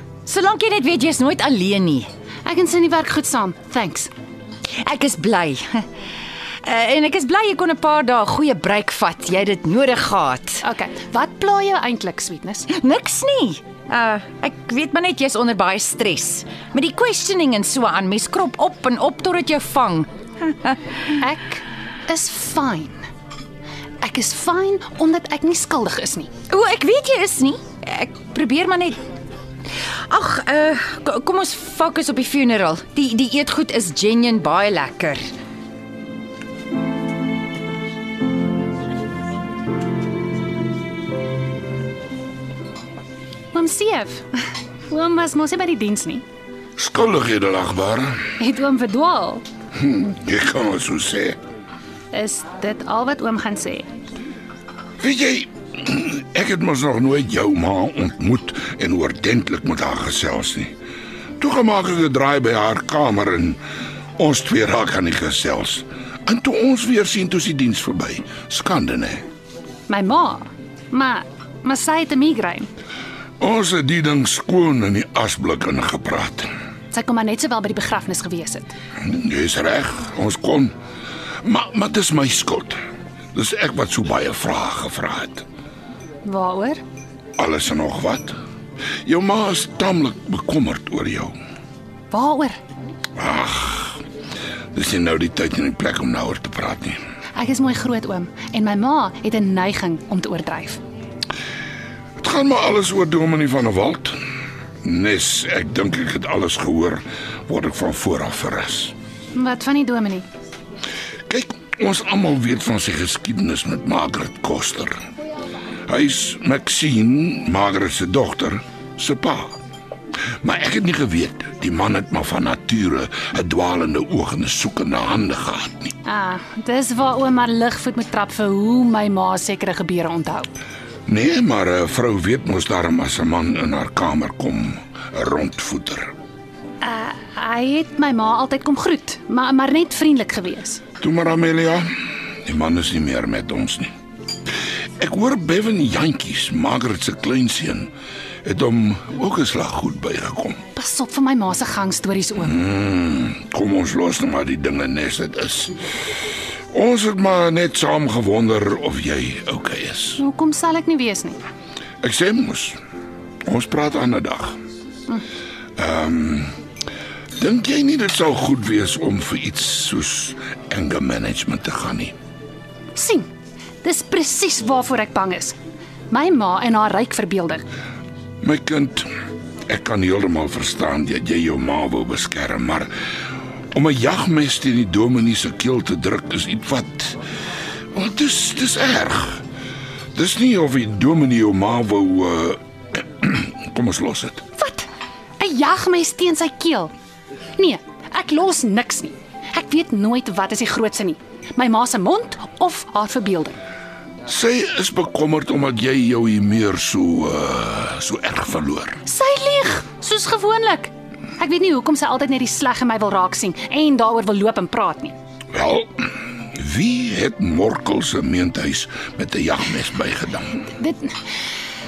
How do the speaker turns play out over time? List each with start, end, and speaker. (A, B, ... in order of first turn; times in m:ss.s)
0:00.2-0:02.1 A
0:02.4-0:04.1 B
0:04.8-0:05.8 A
0:06.6-0:10.6 A
0:10.6-0:12.7 B
0:12.7-0:20.1 A
0:21.2-0:23.0 B
0:24.0-0:26.3 B
0:26.5-0:29.0 A
0:30.1-0:35.3 A
0:43.5-0:44.3 B
0:44.9-0:46.2 B
0:46.8-0:48.2 C
0:48.4-0:49.4 B
0:49.8-0:51.4 C
0:52.1-0:53.9 B
0:55.0-1:00.7 C
1:01.4-1:03.6 C
1:04.2-1:09.2 C
1:09.9-1:12.7 B
1:13.4-1:16.5 C
1:16.9-1:18.7 B
1:19.0-1:20.7 C
1:21.4-1:22.8 C
1:23.3-1:25.4 C
1:26.2-1:26.8 B
1:27.4-1:28.3 C
1:29.0-1:31.3 C
1:32.1-1:32.6 B
1:33.2-1:34.0 C
1:34.7-1:37.0 C
1:37.4-1:40.8 B
1:42.2-1:44.2 C
1:44.8-1:48.9 C
1:49.4-1:50.2 B
1:51.3-1:55.0 C
1:55.9-1:59.6 C
2:00.4-2:05.9 C
2:06.0-2:10.5 B
2:11.1-2:16.1 C
2:16.8-2:20.8 B
2:21.0-2:21.8 C
2:22.4-2:23.9 C
2:25.0-2:27.9 C
2:28.4-2:30.6 C
2:30.7-2:32.6 B
2:32.5-2:35.8 C
2:36.7-2:40.2 C
2:40.2-2:41.4 B
2:42.0-2:42.8 C
2:43.5-2:44.6 C
2:45.8-2:46.5 C
2:47.4-2:52.1 C
2:52.9-2:53.2 B
2:53.8-2:55.5 B
2:56.1-2:57.6 B
2:58.4-2:59.1 C
2:59.7-3:02.9 C
3:03.7-3:07.2 C
3:07.9-3:09.4 C
3:10.1-3:14.4 C
3:14.6-3:14.9 B
3:15.4-3:16.9 B
3:17.6-3:23.6 B
3:24.2-3:29.0 C
3:29.0-3:35.1 B
3:35.5-3:40.6 C
3:40.6-3:41.1 B